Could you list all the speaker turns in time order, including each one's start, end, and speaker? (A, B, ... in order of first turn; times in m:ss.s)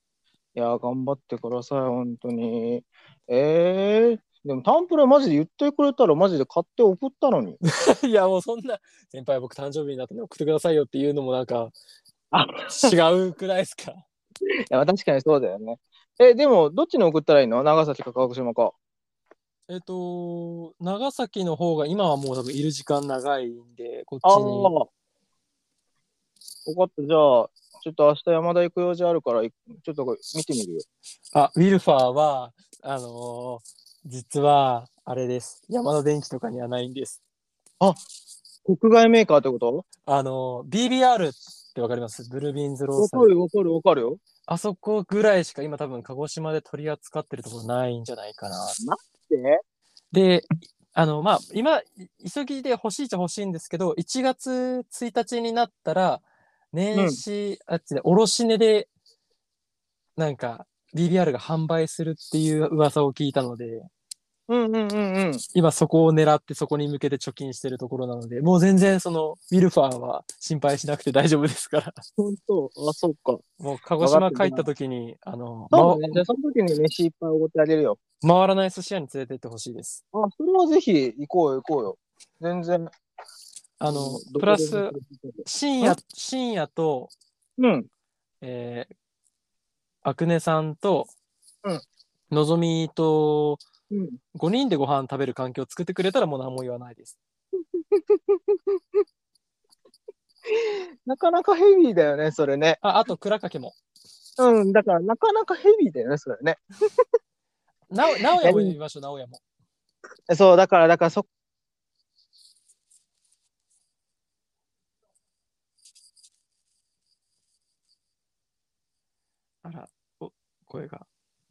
0:00.6-0:07.6 A
0:07.6-0:11.7 B
0:12.3-0:12.9 A
0:12.7-0:14.0 B
0:14.7-0:18.7 A
0:19.7-0:24.7 B
0:24.2-0:24.9 A
0:26.6-0:30.8 A
0:31.3-0:37.2 B
0:38.6-0:39.8 A
0:40.0-0:43.3 B
0:43.0-0:44.2 A
0:44.5-0:48.8 B
0:48.8-0:49.6 A
0:50.1-0:58.9 B
0:56.9-0:57.2 A
1:00.2-1:03.9 B
1:04.5-1:05.4 A
1:05.5-1:12.0 B
1:12.2-1:13.4 A
1:13.6-1:16.2 B
1:14.0-1:14.6 A
1:15.7-1:18.0 A
1:18.2-1:20.0 B
1:20.1-1:22.9 A
1:23.8-1:27.1 B
1:23.9-1:26.0 A
1:27.6-1:27.9 A
1:28.4-1:28.9 B
1:30.0-1:31.1 B
1:32.3-1:33.6 B
1:33.9-1:34.2 A
1:34.3-1:37.2 B
1:37.9-1:38.4 A
1:40.5-1:42.8 A
1:42.8-1:43.8 B
1:44.4-1:46.6 A
1:47.9-1:49.4 B
1:48.4-1:48.7 A
1:50.3-1:51.3 A
1:59.6-2:01.1 B